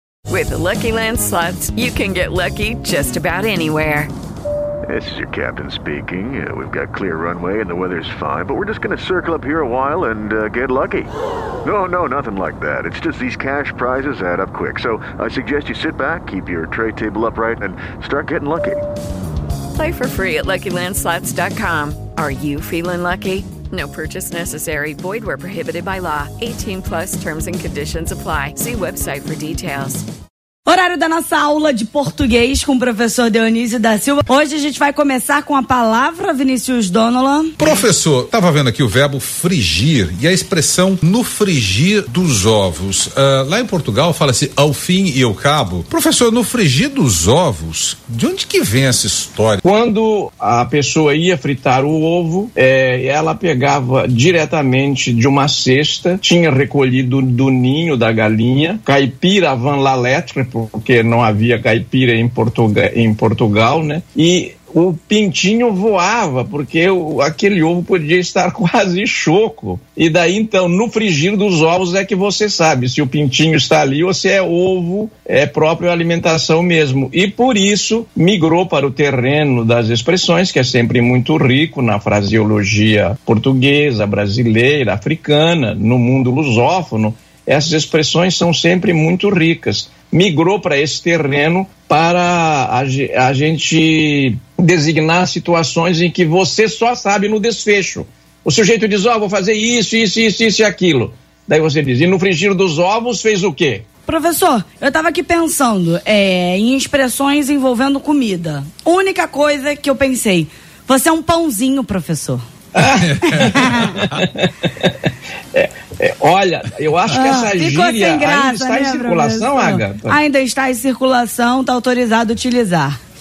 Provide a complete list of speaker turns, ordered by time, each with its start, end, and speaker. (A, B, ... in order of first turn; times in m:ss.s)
0:00.3-0:04.1 A
0:04.9-0:11.1 B
0:11.6-0:18.8 B
0:19.7-0:30.1 A
0:30.7-0:37.6 C
0:37.6-0:49.6 D
0:49.6-1:43.8 E
1:44.1-1:52.4 C
1:52.8-1:54.9 E
1:53.0-1:54.2 D
1:53.4-1:53.9 C
1:55.5-2:00.2 E
1:57.1-2:03.0 C